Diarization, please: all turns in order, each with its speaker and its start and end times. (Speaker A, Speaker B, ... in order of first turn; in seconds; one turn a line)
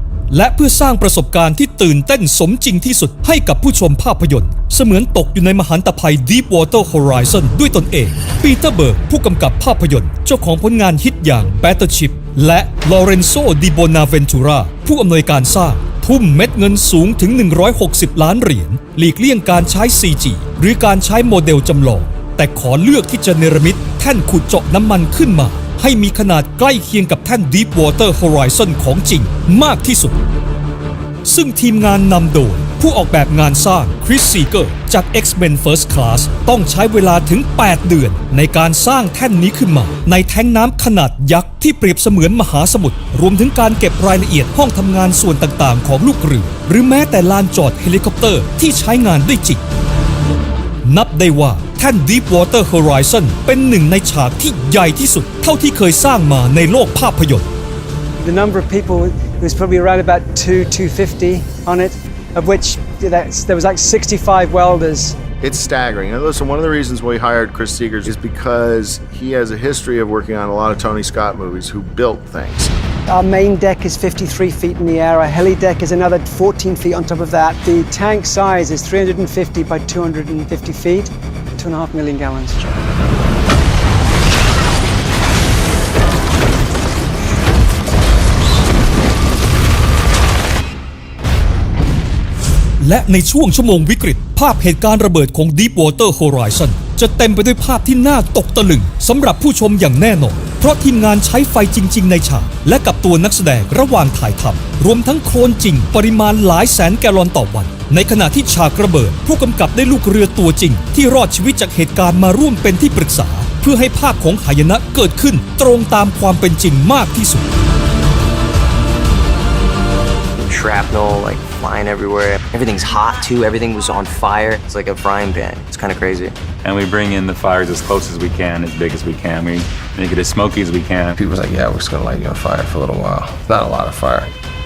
Speaker A: 0.3-30.2
Speaker A: 31.2-49.6
Speaker A: 50.8-57.5
Speaker B: 58.2-65.2
Speaker C: 65.4-72.7
Speaker B: 73.1-82.8
Speaker A: 92.8-117.5
Speaker D: 120.5-126.3
Speaker E: 126.6-131.2
Speaker F: 131.1-134.3